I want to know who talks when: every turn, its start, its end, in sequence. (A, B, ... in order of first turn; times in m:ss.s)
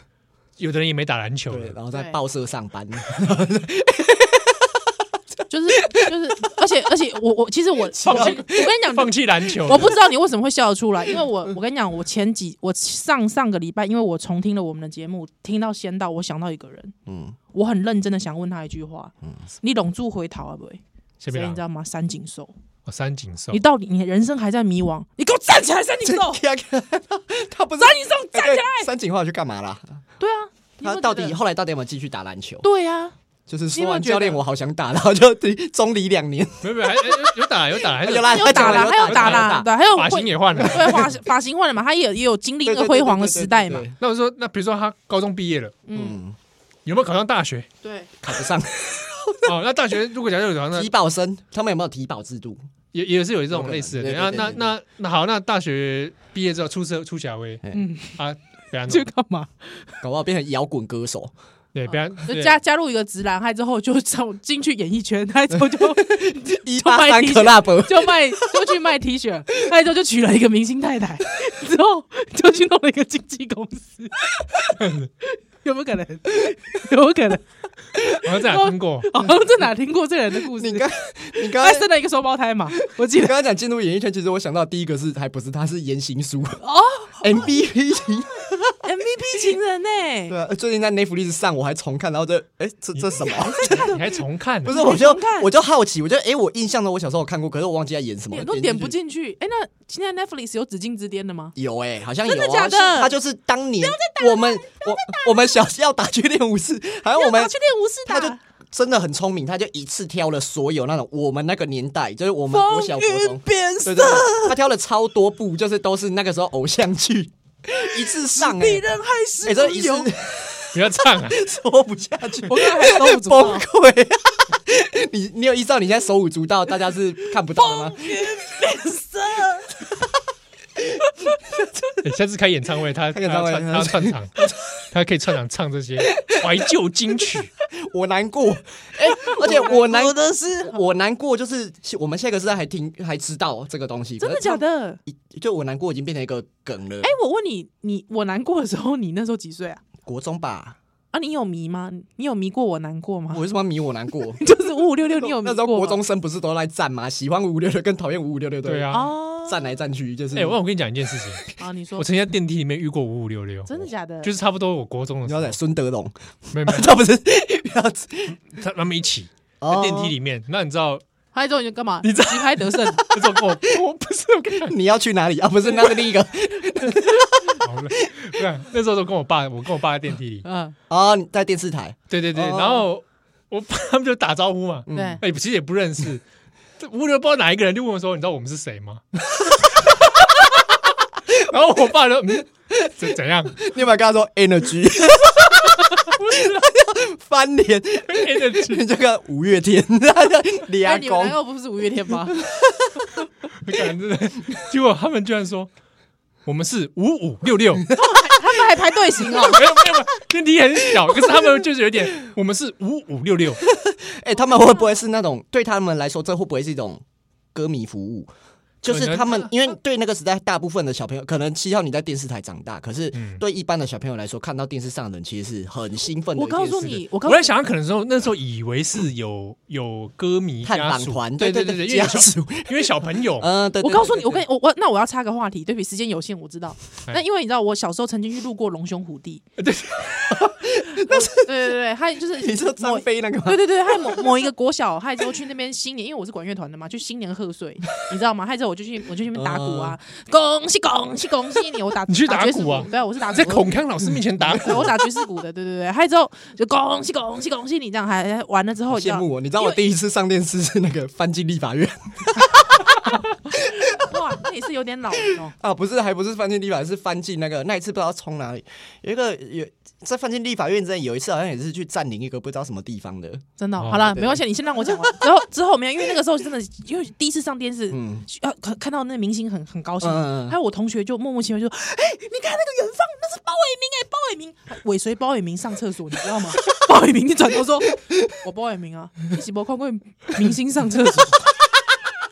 0:00.6-0:01.8 A
0:01.5-0:04.9 B
0:01.9-0:02.2 C
0:05.5-0:16.9 C
0:05.8-0:06.1 B
0:08.0-0:08.7 B
0:08.1-0:10.0 A
0:17.1-0:17.4 B
0:17.5-0:22.5 C
0:21.2-0:21.6 A
0:22.9-0:23.6 A
0:23.5-0:26.4 C
0:26.0-0:30.0 B
0:27.8-0:28.9 C
0:30.2-0:31.4 C
0:30.8-0:32.6 B
0:32.6-0:33.2 C
0:33.5-0:39.7 B
0:33.7-0:34.4 C
0:36.6-0:41.1 A
0:38.2-0:43.9 C
0:40.5-0:41.1 B
0:42.6-0:44.0 B
0:44.0-0:45.8 A
0:45.9-0:46.2 C
0:45.9-0:46.4 B
0:46.9-0:47.7 A
0:47.8-0:48.1 C
0:48.2-0:49.5 B
0:49.4-0:50.9 A
0:50.7-0:52.6 B
0:52.9-0:57.6 A
0:53.5-0:54.7 B
0:57.7-0:58.2 C
0:58.2-0:59.1 A
0:58.9-0:59.9 C
1:00.0-1:01.3 B
1:01.8-1:02.6 A
1:01.9-1:14.8 C
1:05.5-1:08.6 B
1:14.8-1:15.1 A
1:15.3-1:20.9 C
1:18.2-1:19.1 A
1:20.5-1:21.9 B
1:21.4-1:23.4 C
1:22.8-1:26.6 B
1:26.6-1:27.3 C
1:27.2-1:28.8 B
1:28.8-1:30.4 C
1:30.3-1:33.9 B
1:33.0-1:34.8 A
1:33.4-1:34.1 C
1:34.6-1:39.0 B
1:34.7-1:35.5 C
1:38.3-1:41.5 C
1:41.6-1:47.6 B
1:42.2-1:43.2 C
1:43.8-1:45.4 C
1:47.2-1:48.4 C
1:48.1-1:58.9 B
1:52.5-1:54.6 C
1:57.9-2:00.1 C
1:59.4-2:08.5 B
2:00.7-2:01.4 A
2:02.5-2:03.7 C
2:07.5-2:09.8 C
2:11.5-2:12.0 B
2:12.0-2:14.4 A
2:13.1-2:14.7 B
2:14.9-2:17.5 A
2:16.2-2:16.5 B
2:17.8-2:27.1 B
2:19.0-2:20.8 C
2:24.2-2:25.0 C
2:27.0-2:29.8 C
2:30.1-2:30.8 B
2:31.1-2:33.4 C
2:33.3-2:34.4 B
2:34.4-2:36.0 C
2:35.2-2:40.6 B
2:38.6-2:39.1 A
2:38.9-2:39.7 C
2:40.3-2:41.5 A
2:41.6-2:42.1 C
2:42.0-2:45.6 A
2:43.7-2:44.3 C
2:45.3-2:48.4 B
2:46.5-2:47.0 A
2:48.5-2:51.0 A
2:49.6-2:50.1 B
2:51.3-2:53.0 C
2:52.0-2:54.8 A
2:53.2-2:53.8 B
2:54.6-2:58.4 B
2:57.6-3:00.5 A
3:00.4-3:00.8 C
3:00.9-3:02.9 B
3:02.1-3:06.2 A
3:04.9-3:05.2 B
3:04.9-3:05.2 C
3:06.8-3:10.5 A
3:11.3-3:13.7 A
3:12.8-3:21.4 B
3:16.2-3:16.6 A
3:18.1-3:18.8 A
3:20.8-3:22.4 C
3:22.3-3:23.1 B
3:23.6-3:25.7 A
3:26.5-3:27.9 A
3:27.9-3:29.6 C
3:29.4-3:33.6 A
3:31.0-3:31.6 B
3:33.6-3:37.0 B
3:37.6-3:38.3 B
3:38.8-3:47.0 B
3:38.9-3:39.5 A
3:43.2-3:43.4 A
3:46.4-3:47.6 C
3:46.9-3:53.5 A
3:50.6-3:54.4 B
3:53.8-3:59.4 C
3:59.6-4:00.4 A
4:00.3-4:01.8 B
4:00.9-4:13.8 C
4:02.3-4:04.5 B
4:09.3-4:10.0 B
4:12.1-4:15.0 A
4:14.0-4:14.9 B
4:14.5-4:19.8 C
4:18.9-4:22.9 B
4:23.5-4:24.2 B
4:23.5-4:25.6 C
4:25.4-4:33.4 B
4:33.6-4:51.4 C
4:33.8-4:34.2 A
4:34.0-4:35.3 B
4:37.9-4:38.3 B
4:40.0-4:40.6 B